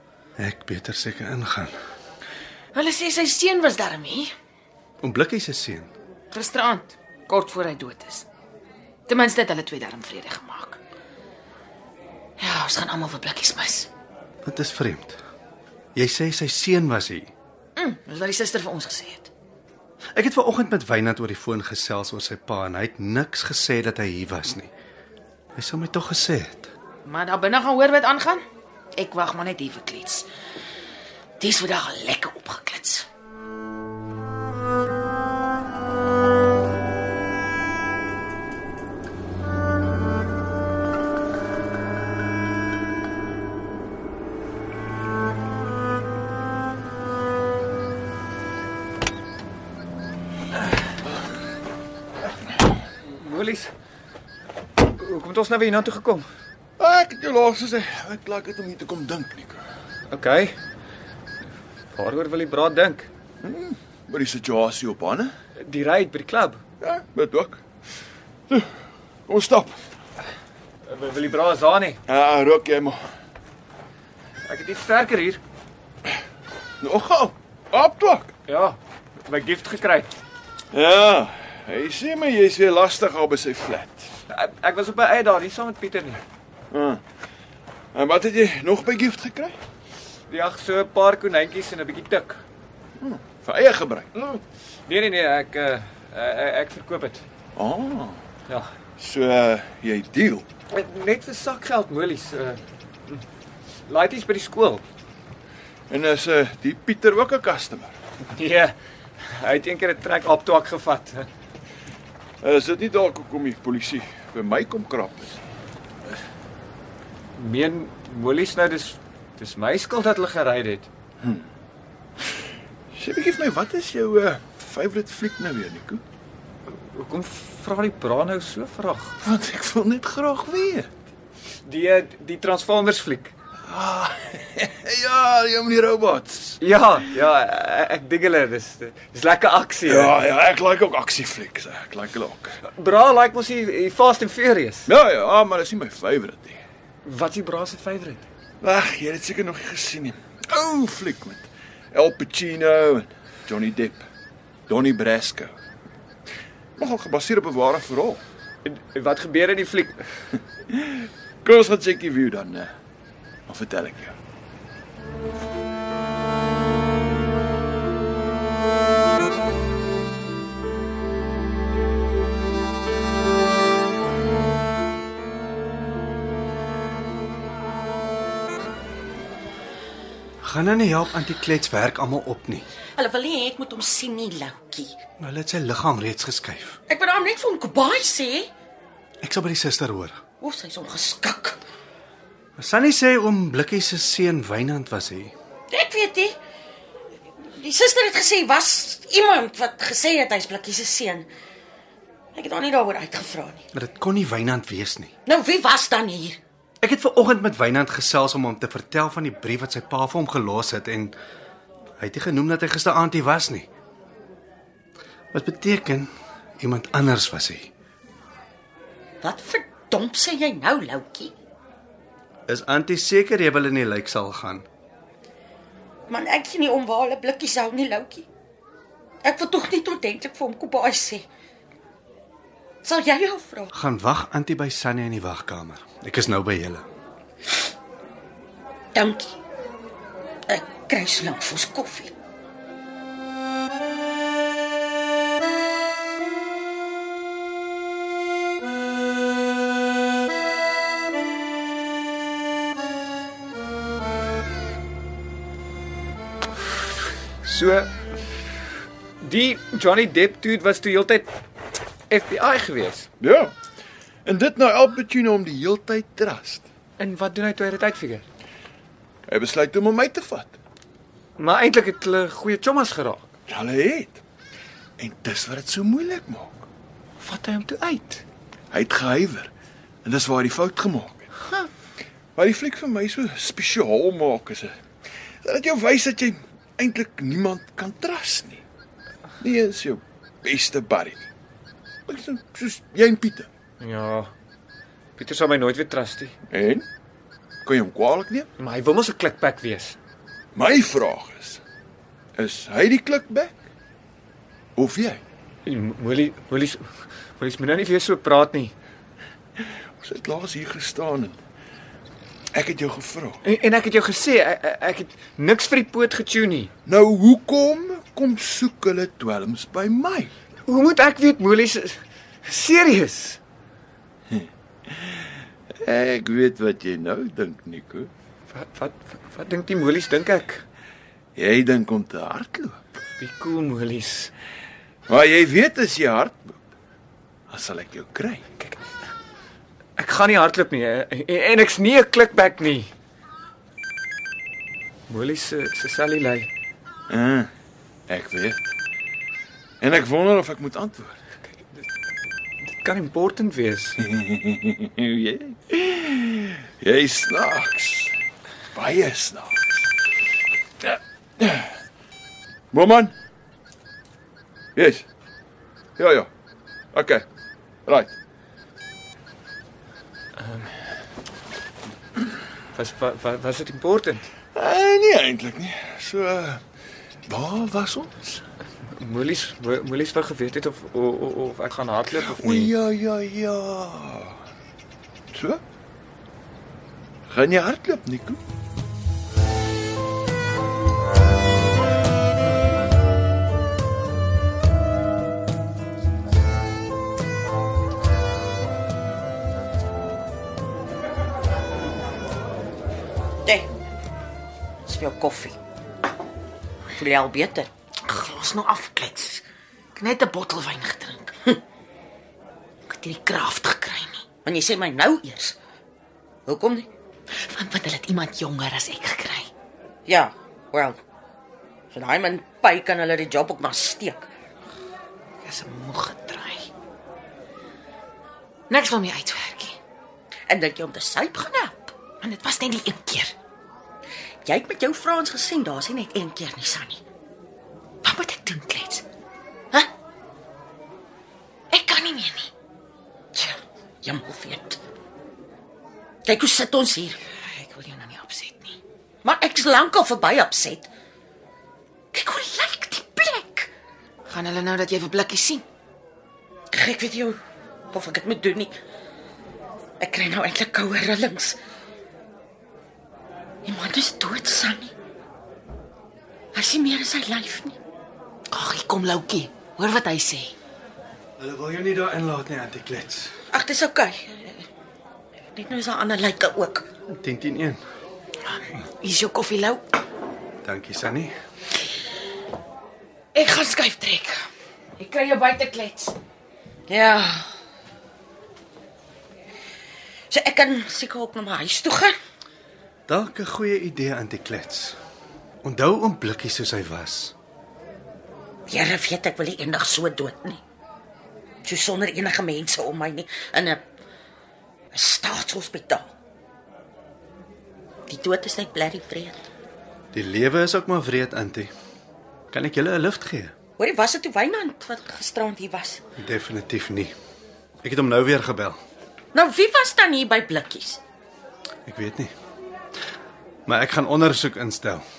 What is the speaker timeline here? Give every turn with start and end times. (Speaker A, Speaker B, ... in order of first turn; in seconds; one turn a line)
Speaker A: 0.4-1.8
Speaker B: 2.7-4.3
Speaker A: 5.0-5.9
Speaker B: 6.3-8.3
Speaker B: 9.1-10.8
Speaker B: 12.4-13.9
Speaker A: 14.4-15.2
Speaker A: 15.9-17.3
Speaker B: 17.8-19.3
Speaker A: 20.1-24.7
Speaker A: 25.6-26.7
Speaker B: 27.1-28.4
Speaker B: 29.0-30.3
Speaker B: 31.4-33.1
Speaker C: 53.0-53.7
Speaker C: 54.9-56.3
Speaker D: 56.8-59.6
Speaker C: 60.1-60.5
Speaker C: 61.9-63.1
Speaker D: 63.4-65.3
Speaker C: 65.6-66.6
Speaker D: 66.8-67.6
Speaker D: 68.5-69.8
Speaker C: 70.9-72.0
Speaker D: 72.1-73.0
Speaker C: 74.5-75.4
Speaker D: 76.8-78.3
Speaker C: 78.5-80.2
Speaker D: 80.7-84.1
Speaker C: 84.3-86.2
Speaker D: 86.7-87.0
Speaker D: 88.0-89.6
Speaker C: 90.3-92.4
Speaker D: 93.0-94.1
Speaker C: 94.2-97.2
Speaker D: 97.6-98.2
Speaker D: 99.0-100.5
Speaker C: 100.7-103.2
Speaker C: 103.9-104.8
Speaker D: 105.9-108.0
Speaker C: 108.3-111.3
Speaker D: 112.4-115.4
Speaker C: 117.4-120.9
Speaker D: 122.9-126.0
Speaker C: 126.8-129.2
Speaker D: 129.2-130.9
Speaker C: 131.7-133.3
Speaker D: 133.7-136.6
Speaker C: 136.6-140.2
Speaker D: 139.8-142.5
Speaker C: 142.6-144.9
Speaker D: 144.9-146.6
Speaker C: 147.1-148.3
Speaker D: 148.6-154.1
Speaker D: 154.7-155.6
Speaker D: 156.8-158.2
Speaker C: 158.7-160.1
Speaker D: 161.0-162.7
Speaker D: 163.5-164.2
Speaker A: 180.4-182.7
Speaker E: 183.0-185.0
Speaker A: 185.2-186.8
Speaker E: 186.9-188.5
Speaker A: 189.2-190.2
Speaker E: 190.4-191.6
Speaker A: 192.6-195.3
Speaker E: 195.7-196.3
Speaker E: 197.4-201.3
Speaker E: 202.3-203.7
Speaker A: 203.7-205.1
Speaker E: 205.3-206.4
Speaker A: 206.8-211.2
Speaker A: 212.0-213.7
Speaker A: 215.3-217.7
Speaker E: 219.2-221.3
Speaker A: 222.5-224.7
Speaker E: 226.1-228.3
Speaker E: 229.2-231.3
Speaker E: 232.8-233.7
Speaker A: 233.7-236.8
Speaker E: 238.9-239.3
Speaker E: 240.5-242.1
Speaker C: 257.4-257.9
Speaker C: 259.2-261.3
Speaker C: 262.1-263.1
Speaker D: 263.2-263.5
Speaker D: 264.2-266.6
Speaker C: 267.0-268.3
Speaker D: 269.3-270.6
Speaker C: 271.4-273.2
Speaker D: 273.5-274.2
Speaker D: 275.0-276.7
Speaker C: 277.2-278.2
Speaker D: 278.7-279.5
Speaker D: 280.1-281.3
Speaker D: 282.4-284.7
Speaker D: 285.4-288.6
Speaker D: 289.4-291.3
Speaker D: 292.1-293.5
Speaker C: 293.8-294.3
Speaker C: 295.2-296.3
Speaker D: 296.5-296.9
Speaker D: 297.6-298.5
Speaker C: 298.6-300.0
Speaker D: 300.6-301.6
Speaker D: 302.4-303.6
Speaker D: 304.8-305.2
Speaker C: 305.7-306.9
Speaker C: 307.4-308.7
Speaker D: 310.0-311.4
Speaker D: 312.5-313.4
Speaker C: 313.4-316.7
Speaker D: 316.9-320.3
Speaker C: 320.7-323.4
Speaker D: 324.3-325.1
Speaker D: 325.8-328.1
Speaker C: 328.5-330.6
Speaker D: 331.4-332.8
Speaker C: 333.2-334.3
Speaker D: 335.1-336.6
Speaker D: 337.5-338.4
Speaker C: 340.0-342.9
Speaker C: 345.1-346.5
Speaker D: 347.1-347.5
Speaker D: 348.1-348.7
Speaker D: 349.8-351.2
Speaker C: 352.8-354.0
Speaker D: 354.0-358.1
Speaker D: 358.7-359.8
Speaker D: 360.8-361.7
Speaker D: 362.7-363.1
Speaker D: 364.8-365.1
Speaker D: 366.0-366.3
Speaker D: 366.9-367.2
Speaker D: 367.9-368.1
Speaker C: 370.4-370.7
Speaker C: 372.7-374.3
Speaker D: 374.6-376.6
Speaker D: 377.3-378.4
Speaker C: 379.0-382.7
Speaker D: 382.3-384.4
Speaker D: 385.3-385.6
Speaker D: 387.3-388.4
Speaker E: 404.9-405.6
Speaker E: 406.9-407.7
Speaker B: 408.1-409.4
Speaker B: 410.0-411.4
Speaker B: 412.9-414.2
Speaker E: 414.4-415.6
Speaker E: 416.5-416.9
Speaker B: 417.4-419.5
Speaker E: 420.1-421.0
Speaker E: 421.9-424.3
Speaker B: 425.4-426.7
Speaker B: 428.7-429.8
Speaker E: 430.5-431.9
Speaker B: 432.2-433.4
Speaker E: 434.4-437.0
Speaker B: 438.0-439.1
Speaker B: 441.7-442.5
Speaker E: 443.4-444.8
Speaker E: 446.2-447.2
Speaker B: 447.5-448.8
Speaker E: 449.2-450.9
Speaker E: 452.1-453.7
Speaker B: 454.3-455.6
Speaker E: 456.7-457.4
Speaker E: 457.9-458.7
Speaker E: 460.0-461.6
Speaker E: 463.7-464.9
Speaker E: 466.5-467.8
Speaker B: 468.5-470.6
Speaker A: 471.4-473.3
Speaker E: 473.5-474.7
Speaker E: 475.5-476.9
Speaker A: 477.1-477.8
Speaker B: 478.5-479.8
Speaker A: 480.6-481.3
Speaker B: 483.4-484.4
Speaker B: 485.0-486.2
Speaker E: 486.9-487.5
Speaker E: 490.3-492.1
Speaker A: 493.1-495.0
Speaker A: 495.6-497.4
Speaker E: 498.7-500.6
Speaker E: 501.6-503.8
Speaker E: 504.9-506.1
Speaker E: 508.1-509.4
Speaker A: 510.1-511.7
Speaker A: 512.5-513.5
Speaker E: 513.8-516.0
Speaker A: 516.2-517.1
Speaker A: 517.8-518.8
Speaker E: 519.3-521.0
Speaker A: 521.9-522.3
Speaker A: 523.7-525.0